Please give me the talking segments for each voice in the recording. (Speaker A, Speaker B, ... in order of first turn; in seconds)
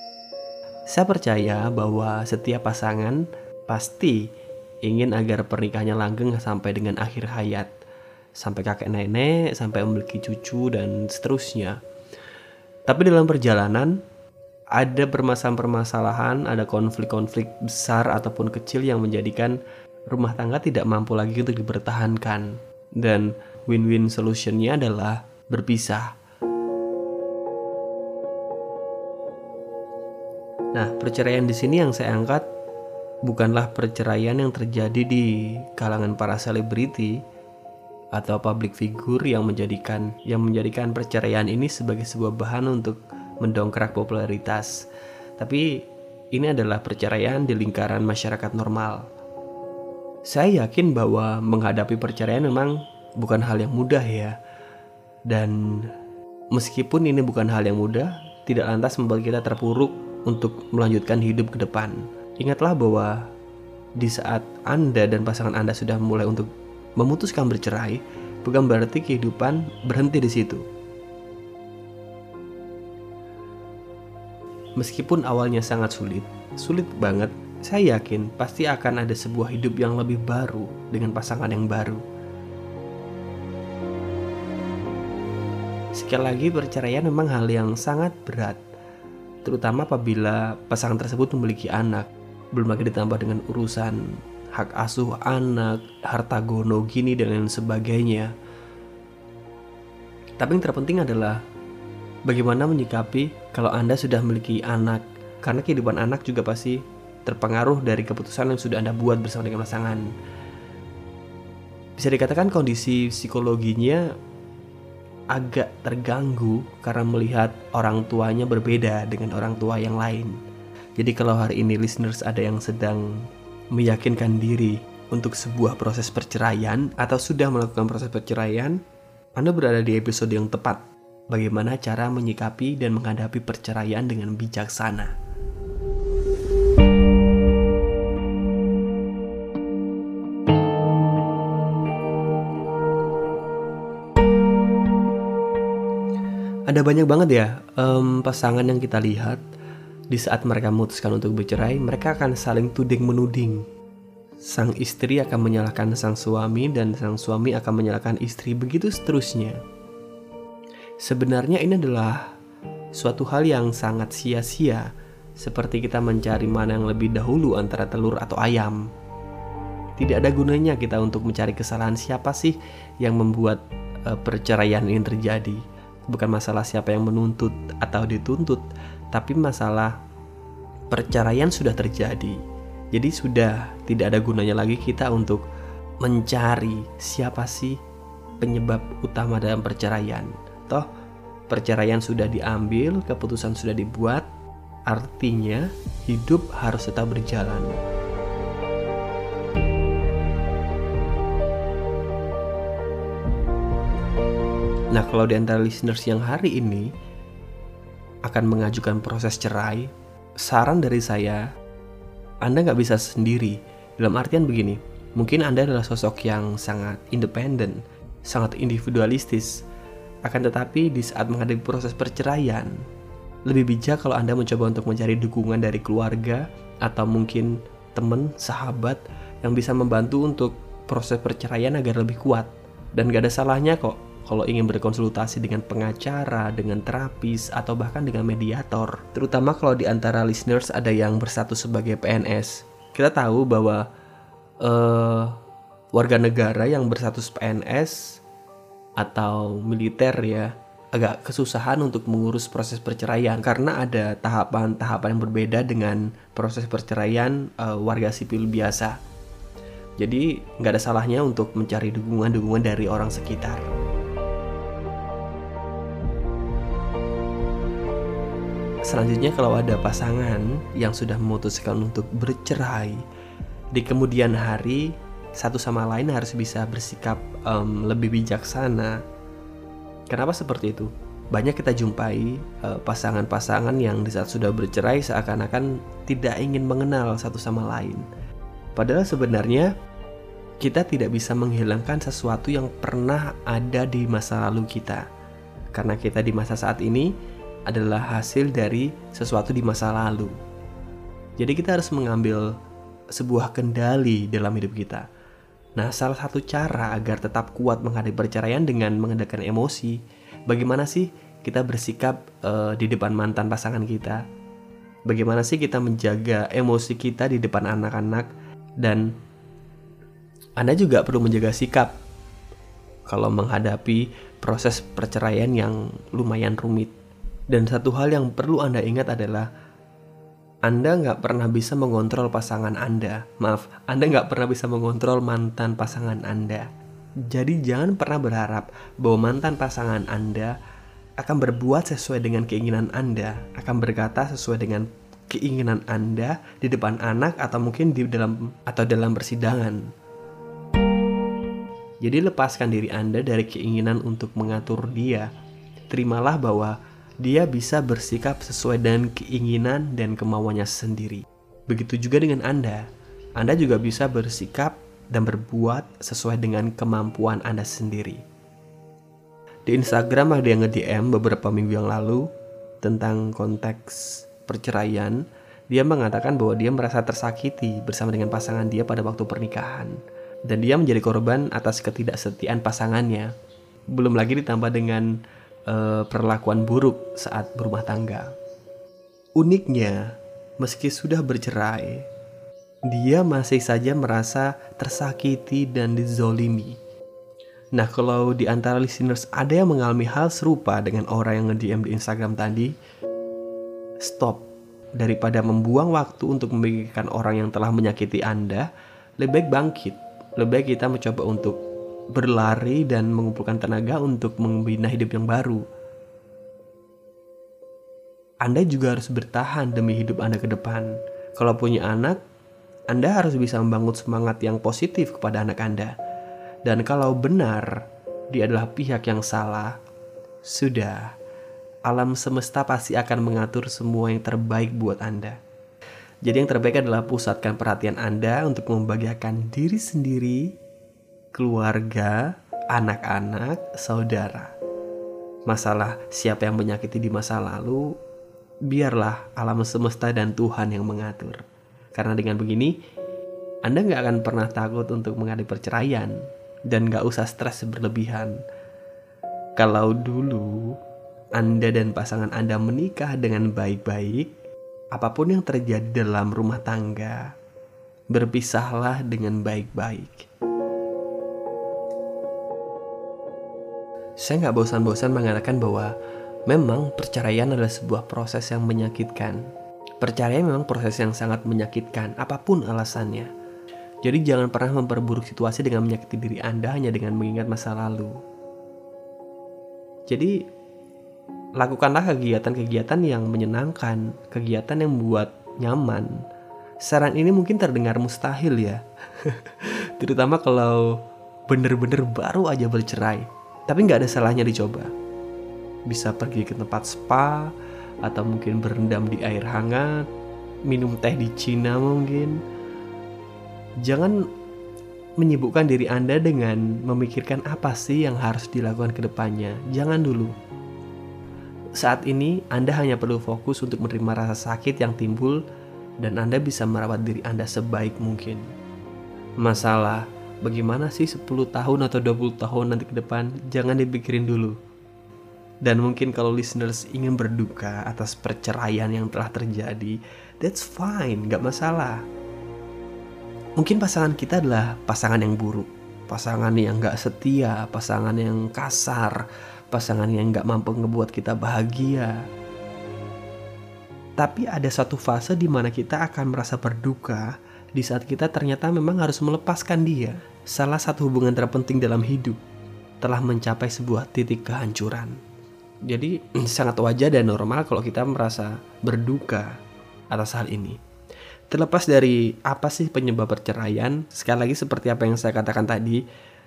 Speaker A: 0.9-4.2, 4.8-7.7, 8.4-11.8, 12.9-14.0, 14.8-26.1, 30.7-32.5, 33.2-37.2, 38.1-44.8, 45.4-45.7, 46.3-49.0, 50.3-54.4, 55.3-55.9, 56.5-63.3, 64.0-70.6, 74.8-82.0, 86.0-88.6, 89.5-98.3, 100.4-101.4, 102.3-110.1, 112.0-114.1, 115.3-120.4, 121.0-123.2, 123.8-128.8, 129.4-135.1, 146.7-149.4, 150.1-153.7, 154.4-159.6, 161.0-162.2, 162.9-164.9, 165.4-168.8, 170.0-179.9, 180.9-182.4, 182.9-185.4, 186.0-187.8, 188.4-190.9, 191.5-194.3, 194.9-197.8, 204.9-206.9, 208.3-211.4, 212.4-219.6, 220.2-222.8, 223.5-243.8, 244.6-245.4, 245.9-248.2, 249.0-259.0, 260.0-263.7, 268.9-273.0, 273.7-279.0, 280.1-288.1, 288.8-289.7, 290.6-295.1, 295.7-297.1, 297.7-300.4, 301.4-302.5, 303.1-305.1, 305.8-314.2, 315.1-318.3, 318.8-319.1, 320.6-321.9, 323.1-326.9, 327.5-329.5, 330.7-336.7, 337.3-340.5, 341.2-349.9, 352.0-355.3, 355.9-368.2, 369.7-372.3, 372.8-380.0, 380.5-383.3, 383.9-385.2, 385.7-388.3, 389.4-392.1, 392.9-396.8, 397.8-402.7, 404.0-404.4, 405.0-408.7, 409.2-411.6, 412.1-415.6, 418.4-422.2, 422.9-425.9, 426.6-427.8, 428.3-429.8, 430.4-431.1, 431.9-435.4, 436.2-440.5, 441.3-444.5, 445.5-447.9, 448.7-452.8, 453.7-458.4, 459.6-460.8, 461.4-464.3, 464.9-467.3, 468.1-470.3, 474.2-476.0, 476.5-479.5, 480.0-483.3, 484.0-488.1, 490.1-490.4, 491.6-496.2, 496.8-504.9, 505.9-507.5, 508.0-510.1, 510.7-512.4, 513.8-514.3, 515.2-520.3, 521.8-525.4, 526.0-528.5, 529.4-534.6, 535.6-542.0, 543.6-552.2, 554.2-562.4, 563.0-565.2, 565.9-569.6, 570.1-570.8, 571.5-576.0